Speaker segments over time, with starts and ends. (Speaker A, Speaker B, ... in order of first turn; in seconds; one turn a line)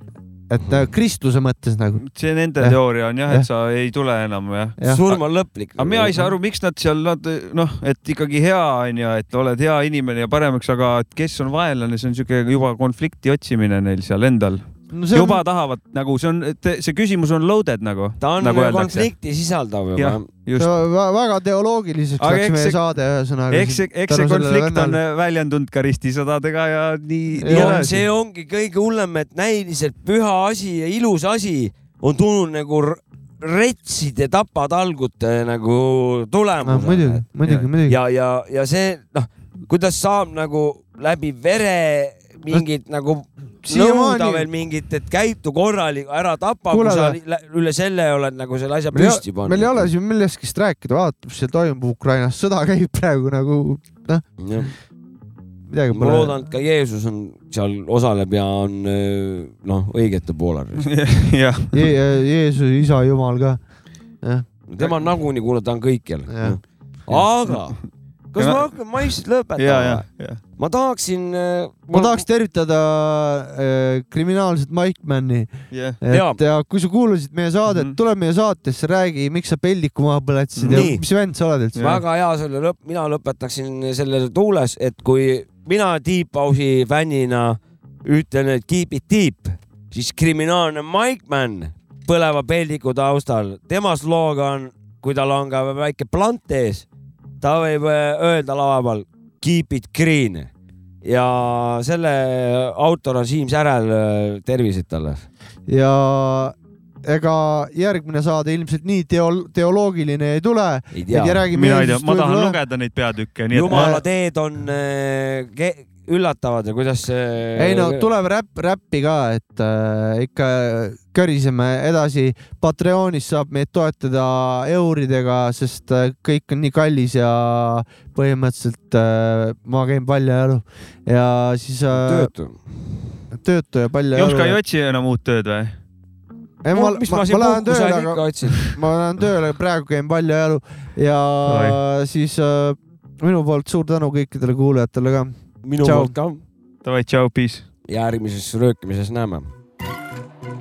Speaker A: 0.5-2.0
Speaker B: 2.0-5.2
Speaker A: 2.6-3.5
Speaker C: 4.8-6.2
Speaker B: 5.8-14.6
Speaker A: 14.9-15.4
Speaker B: 15.1-19.1
Speaker C: 18.2-20.3
Speaker B: 19.9-20.7
Speaker A: 20.6-25.0
Speaker B: 22.2-22.8
Speaker B: 23.5-28.0
Speaker A: 27.4-27.9
Speaker C: 27.5-37.2
Speaker A: 36.6-38.0
Speaker C: 37.9-49.9
Speaker A: 43.6-44.5
Speaker A: 46.7-47.2
Speaker A: 48.9-54.2
Speaker C: 54.4-54.7
Speaker A: 55.7-56.5
Speaker C: 55.9-60.9
Speaker B: 60.9-61.8
Speaker A: 61.7-63.6
Speaker C: 64.7-67.8
Speaker A: 66.3-66.6
Speaker B: 67.1-67.8
Speaker C: 68.3-72.2
Speaker B: 68.4-68.7
Speaker B: 69.6-70.4
Speaker A: 71.9-82.0
Speaker B: 75.7-76.0
Speaker C: 76.1-76.4
Speaker B: 80.5-80.9
Speaker C: 80.7-81.0
Speaker C: 81.8-96.8
Speaker C: 97.4-100.5
Speaker C: 101.0-105.2
Speaker A: 105.7-112.6
Speaker C: 110.9-111.4
Speaker B: 111.5-114.0
Speaker C: 113.5-118.1
Speaker A: 113.7-114.0
Speaker A: 117.6-132.3
Speaker C: 131.9-133.2
Speaker A: 133.3-134.6
Speaker B: 134.1-135.8
Speaker A: 136.6-146.1
Speaker C: 136.7-138.7
Speaker B: 141.5-141.8
Speaker C: 145.6-146.4
Speaker B: 146.8-147.7
Speaker C: 147.9-149.5